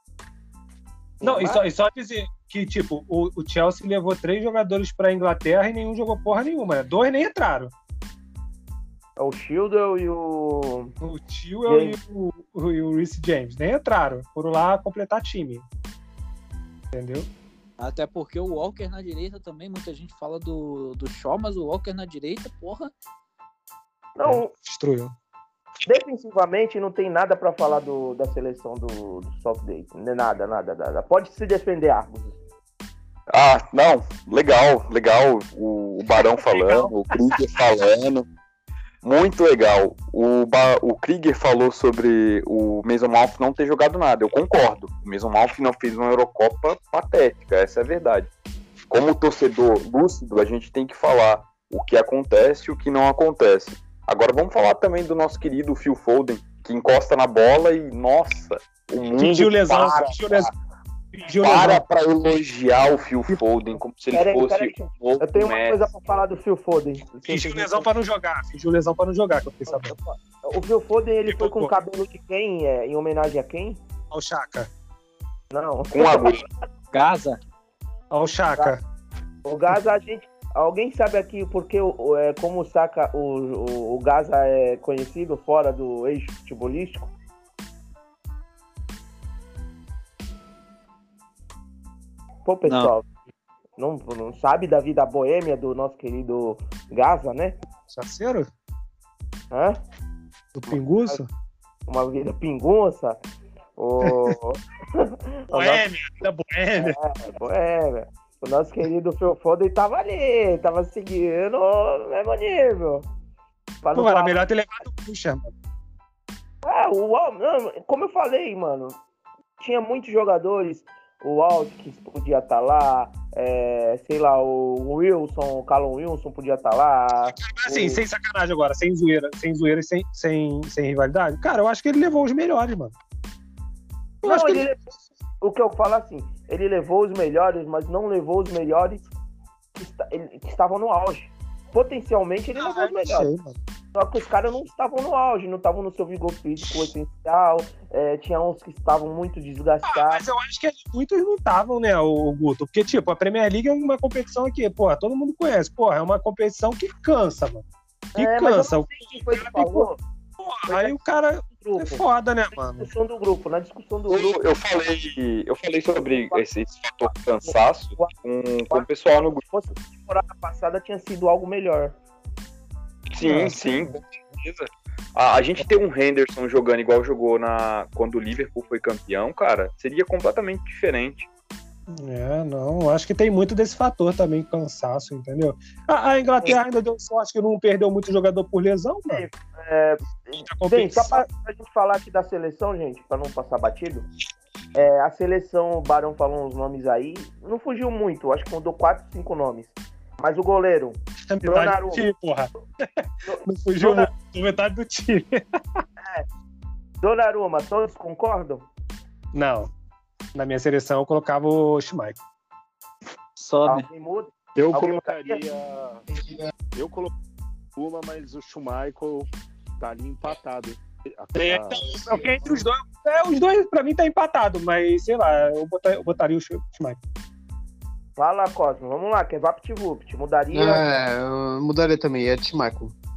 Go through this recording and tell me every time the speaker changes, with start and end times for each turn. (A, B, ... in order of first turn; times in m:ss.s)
0:01.2-0:01.6 A
0:01.2-0:07.7 B
0:09.2-0:10.9 A
0:11.0-0:15.6 B
0:11.7-0:12.0 A
0:16.9-0:17.3 B
0:17.8-0:22.9 C
0:24.2-0:24.5 A
0:24.2-0:25.1 B
0:25.8-0:32.3 A
0:33.3-0:38.2 D
0:36.2-0:37.4 B
0:39.0-0:48.3 D
0:48.9-1:00.5 D
0:59.1-1:00.5 B
1:01.1-1:01.8 B
1:01.4-1:05.8 D
1:04.1-1:07.9 A
1:07.3-1:09.9 B
1:09.7-1:13.8 A
1:11.3-1:11.7 B
1:14.1-1:14.7 B
1:15.5-1:16.4 A
1:15.9-1:16.4 D
1:16.9-1:17.4 C
1:18.1-1:18.8 B
1:19.4-1:27.1 A
1:32.4-1:33.0 A
1:32.7-1:32.9 C
1:33.8-1:37.6 A
1:37.9-1:38.5 B
1:39.5-1:39.8 A
1:40.6-1:41.3 B
1:40.7-1:41.2 A
1:41.9-1:43.2 A
1:43.8-1:45.8 A
1:44.0-1:44.4 B
1:45.5-1:47.0 B
1:46.8-1:53.1 A
1:53.8-1:54.5 A
1:53.9-1:55.5 B
1:56.6-1:59.0 A
1:59.6-2:08.0 A
2:07.3-2:12.9 B
2:14.2-2:14.8 A
2:14.2-2:14.6 B
2:15.4-2:19.0 A
2:19.7-2:23.3 A
2:22.6-2:23.6 B
2:23.9-2:30.2 A
2:29.8-2:37.6 B
2:38.1-2:39.9 B
2:38.2-2:40.0 A
2:40.4-2:42.9 B
2:40.7-2:44.4 A
2:44.1-2:49.4 D
2:46.1-2:46.4 A
2:47.4-2:48.1 A
2:48.7-2:52.0 A
2:53.1-3:01.3 D
2:53.2-2:54.0 B
3:01.9-3:09.3 B
3:09.1-3:14.0 A
3:10.4-3:11.2 B
3:14.7-3:22.1 A
3:21.3-3:25.4 B
3:23.2-3:24.1 A
3:27.0-3:28.7 A
3:29.3-3:29.7 B
3:30.3-3:32.2 B
3:33.4-3:33.8 C
3:33.6-3:35.4 A
3:34.6-3:36.0 E
3:36.7-3:37.1 E
3:37.8-3:42.6 E
3:41.4-3:47.0 B
3:48.2-3:50.8 A
3:50.5-3:52.9 F